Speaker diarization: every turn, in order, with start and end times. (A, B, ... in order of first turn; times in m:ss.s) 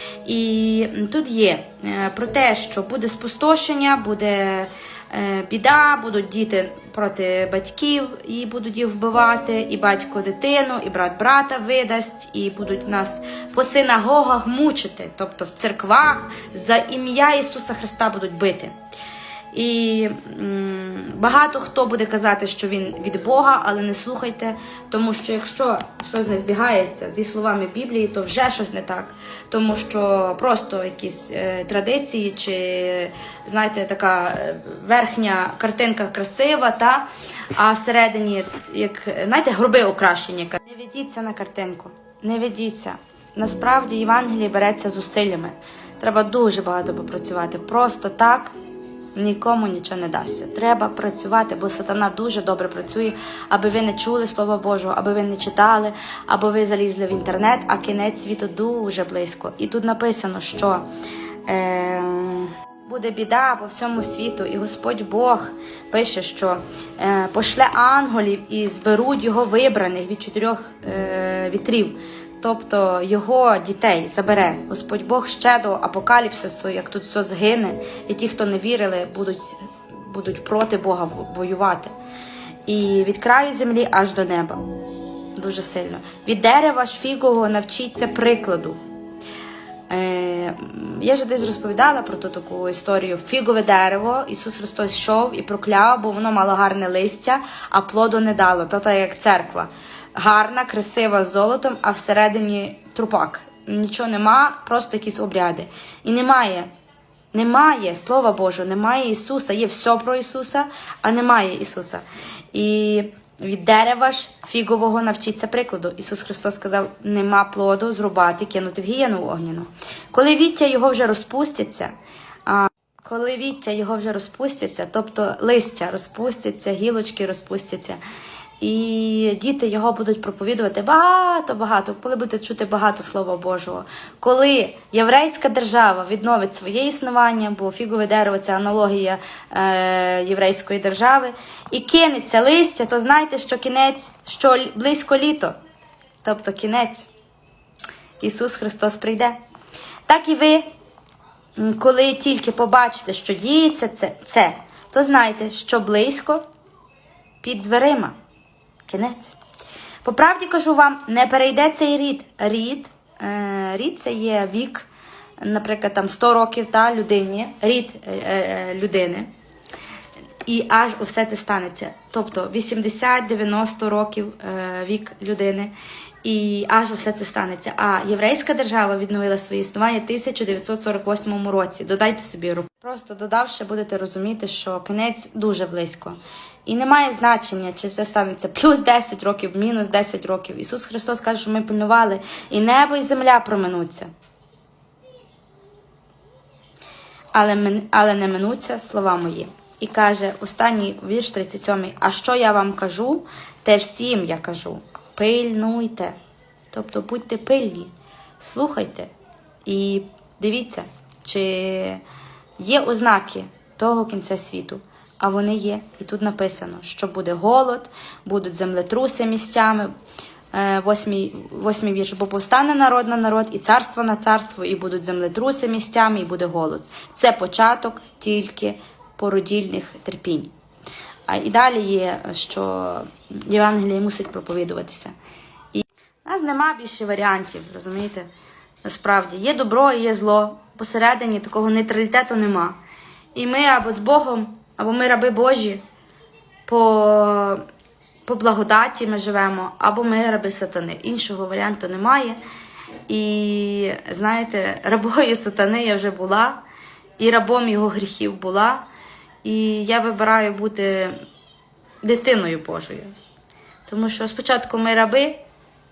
0:00.2-0:18.7 A
0:19.5-0:48.5 A
0:49.2-1:00.8 A
1:01.5-1:21.9 A
1:22.7-1:24.6 A
1:25.4-1:28.8 A
1:29.9-1:46.7 A
1:47.3-2:01.9 A
2:02.5-2:08.0 A
2:08.6-2:25.5 A
2:26.2-2:27.1 A
2:28.2-2:29.4 A
2:30.1-2:30.7 A
2:31.6-2:36.4 A
2:37.4-2:38.2 A
2:38.9-2:39.4 A
2:40.0-2:44.9 A
2:45.4-2:49.3 A
2:50.4-2:55.7 A
2:56.2-3:14.1 A
3:17.3-3:26.2 A
3:26.7-3:29.1 A
3:29.6-3:32.0 A
3:32.6-3:39.9 A
3:40.5-3:50.5 A
3:51.3-3:55.2 A
3:55.7-3:58.3 A
3:58.8-4:02.8 A
4:03.4-4:05.8 A
4:06.7-4:07.6 A
4:08.2-4:12.4 A
4:13.1-4:16.6 A
4:17.2-4:18.8 A
4:19.4-4:21.2 A
4:22.0-4:23.1 A
4:23.9-4:25.4 A